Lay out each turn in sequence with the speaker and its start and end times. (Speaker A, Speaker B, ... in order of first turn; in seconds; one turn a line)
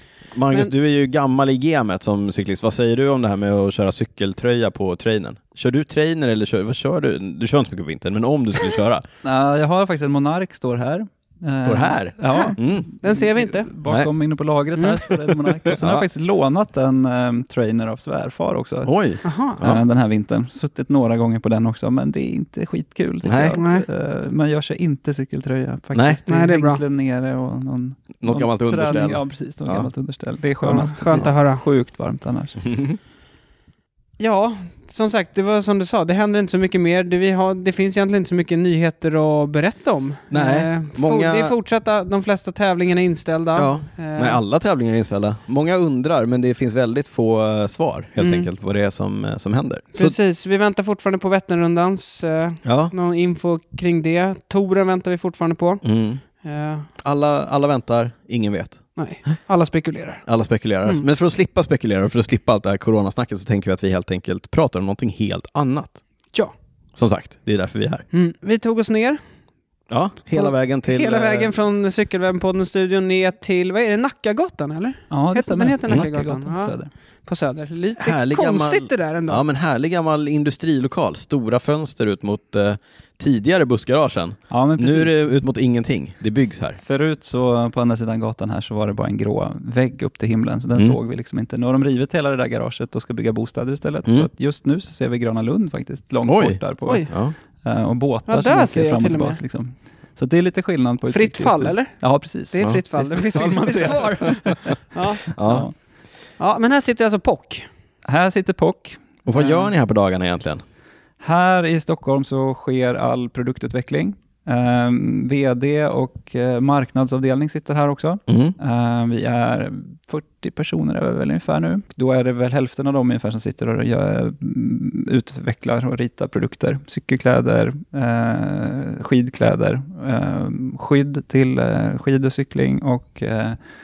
Speaker A: 0.3-9.1
Speaker B: 9.2-18.9
Speaker A: 11.6-12.9
Speaker C: 12.3-13.7
Speaker A: 13.8-14.1
Speaker C: 14.8-15.0
Speaker A: 15.7-16.1
Speaker A: 18.9-19.8
Speaker C: 19.2-19.6
Speaker B: 19.6-32.6
Speaker A: 23.2-23.6
Speaker C: 23.6-23.9
Speaker A: 25.9-26.2
Speaker C: 26.3-26.8
Speaker A: 28.2-29.9
Speaker C: 30.6-31.6
Speaker A: 32.6-33.0
Speaker C: 34.2-44.4
Speaker A: 40.3-41.6
Speaker A: 43.5-50.1
Speaker C: 48.2-48.5
Speaker C: 50.0-55.8
Speaker A: 52.6-52.9
Speaker A: 55.8-56.2
Speaker C: 56.4-56.9
Speaker A: 57.0-59.3
Speaker C: 59.0-60.2
Speaker A: 60.2-66.0
Speaker A: 67.0-68.0
Speaker C: 68.1-69.2
Speaker A: 69.9-71.5
Speaker C: 70.3-76.8
Speaker B: 75.1-76.9
Speaker C: 77.2-79.4
Speaker A: 78.0-86.8
Speaker B: 84.5-85.4
Speaker B: 86.8-97.1
Speaker A: 96.2-97.3
Speaker C: 96.8-97.1
Speaker B: 97.6-105.7
Speaker C: 98.3-99.4
Speaker C: 101.1-101.9
Speaker C: 102.5-105.2
Speaker A: 103.3-104.7
Speaker A: 105.3-105.7
Speaker C: 106.4-107.7
Speaker B: 108.1-109.7
Speaker A: 109.2-110.6
Speaker B: 111.2-133.6
Speaker A: 118.3-118.6